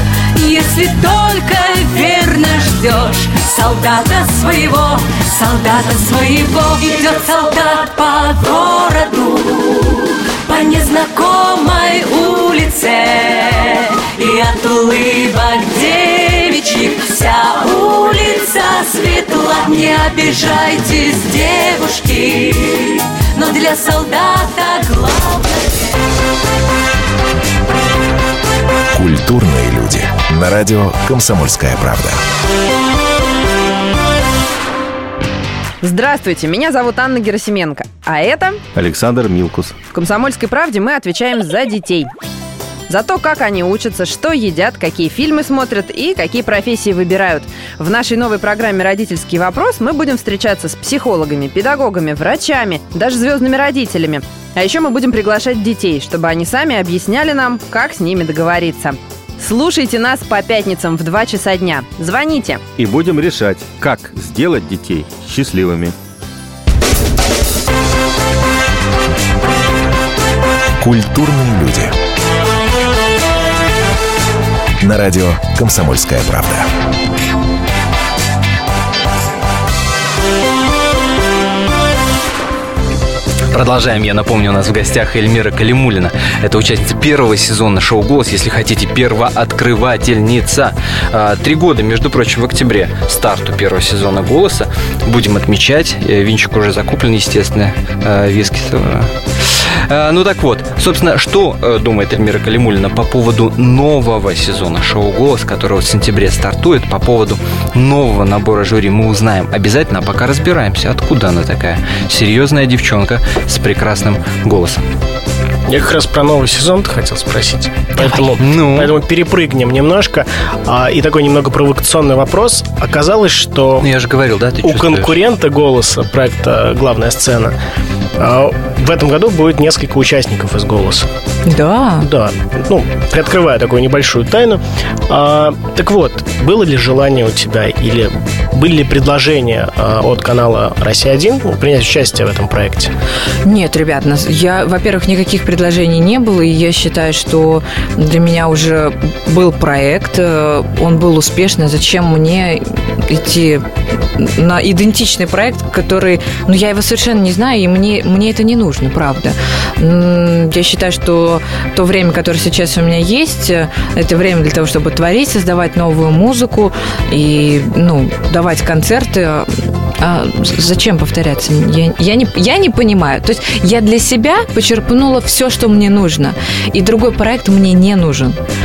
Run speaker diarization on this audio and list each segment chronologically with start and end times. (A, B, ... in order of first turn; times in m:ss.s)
0:00.4-0:25.9 A
0:28.9-0:32.2 B
0:35.8-0:38.6 C
0:38.7-0:39.8 D
0:39.9-0:42.1 C
0:42.9-1:02.6 C
1:02.8-1:05.9 D
1:10.8-1:11.9 B
1:14.8-1:16.7 B
1:23.5-1:54.8 E
1:55.7-2:03.9 F
1:58.4-1:59.0 E
2:03.8-2:05.2 E
2:04.6-2:07.5 F
2:08.2-2:11.1 F
2:11.4-2:12.1 G
2:12.0-2:22.9 F
2:23.4-2:58.4 G